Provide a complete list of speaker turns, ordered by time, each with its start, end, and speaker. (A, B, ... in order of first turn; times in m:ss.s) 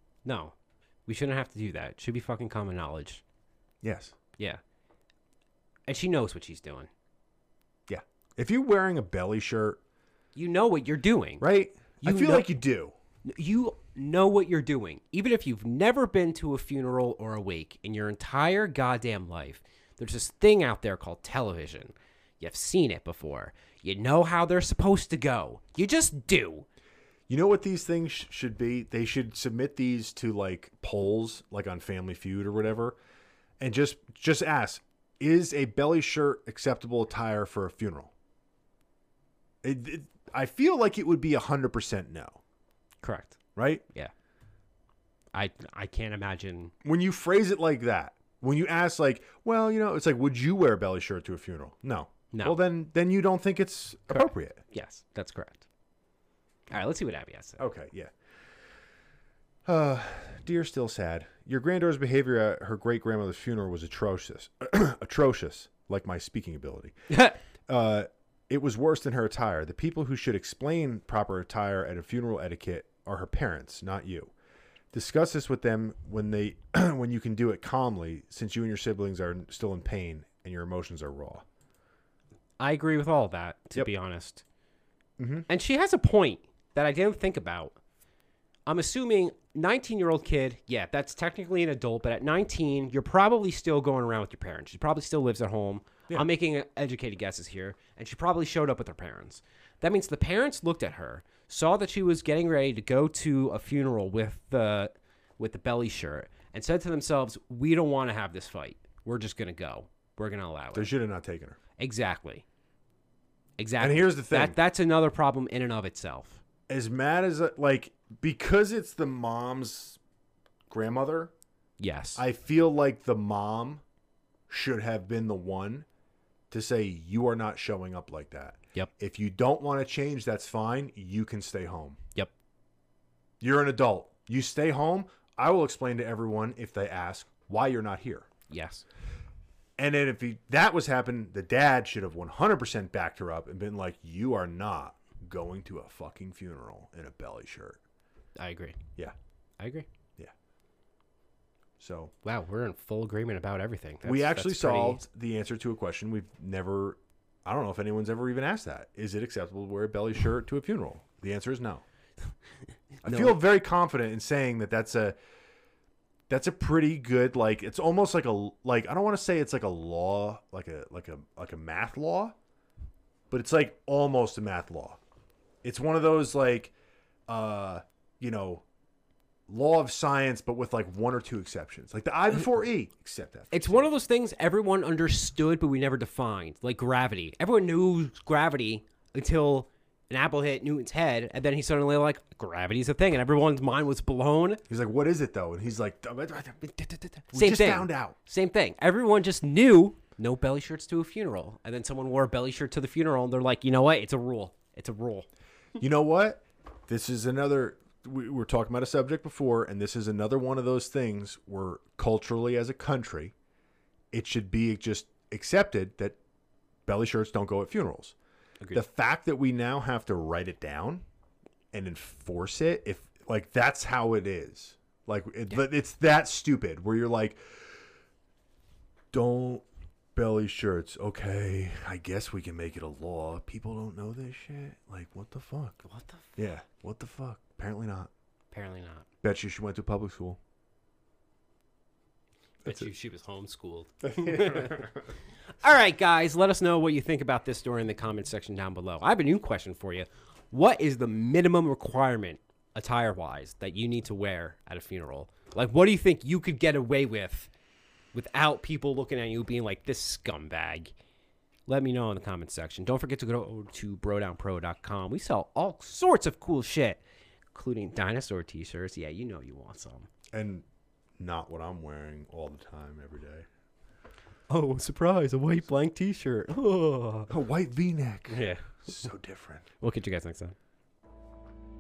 0:00.2-0:00.5 A
0:01.1-0:03.2 A
0:03.8-0:04.2 B
0:05.9-0:06.9 A
0:07.9-0:09.8 B
0:10.4-0:11.4 A
0:11.4-0:12.9 B
0:12.0-0:12.5 A
0:13.2-0:26.6 A
0:27.3-0:33.0 B
0:33.6-0:38.1 B
0:39.6-0:42.4 B
0:43.0-0:43.4 A
0:43.5-0:43.8 B
0:45.3-0:46.7 A
0:46.8-0:54.6 B
0:52.3-0:52.6 A
0:54.1-0:55.6 A
0:56.7-0:57.6 A
0:57.6-0:58.1 B
0:59.6-1:06.9 B
1:07.1-1:07.4 A
1:07.7-1:14.3 B
1:14.9-1:21.4 B
1:22.6-1:24.4 A
1:25.2-1:25.5 B
1:25.5-1:27.8 A
1:28.7-1:50.9 A
1:50.7-1:51.6 B
1:51.8-1:52.4 A
1:53.6-1:56.4 A
1:53.8-1:54.6 B
1:56.7-2:00.0 B
2:00.7-2:01.3 B
2:01.8-2:02.2 A
2:02.2-2:03.8 B
2:04.5-2:05.9 B
2:06.5-2:12.0 B
2:13.4-2:18.3 B
2:18.5-2:18.8 A
2:19.8-2:27.8 B
2:28.4-2:28.8 A
2:29.6-2:29.9 A
2:31.8-2:32.1 B
2:32.2-2:35.0 A
2:34.0-2:41.8 B
2:43.0-2:45.2 B
2:43.0-2:43.4 A
2:46.3-2:52.4 B
2:53.3-2:55.0 B
2:55.6-2:56.7 B
2:57.3-2:58.6 B
2:59.5-3:03.9 B
3:03.5-3:14.6 A
3:14.7-3:18.2 B
3:17.3-3:25.3 A
3:25.8-3:33.3 B
3:34.1-3:36.2 B
3:36.9-3:38.2 B
3:38.7-3:41.0 B
3:41.7-3:47.8 B
3:49.1-3:55.8 B
3:55.8-3:56.4 A
3:56.4-3:58.1 B
3:58.5-3:59.1 A
3:59.2-4:00.4 B
4:02.6-4:05.0 A
4:04.1-4:04.9 B
4:05.6-4:17.5 A
4:18.1-4:20.9 A
4:21.7-4:27.0 A
4:27.5-4:30.1 A
4:30.3-4:30.6 B
4:31.2-4:33.5 B
4:34.5-4:37.3 A
4:37.3-4:39.6 B
4:38.3-4:38.9 A
4:39.8-4:40.5 A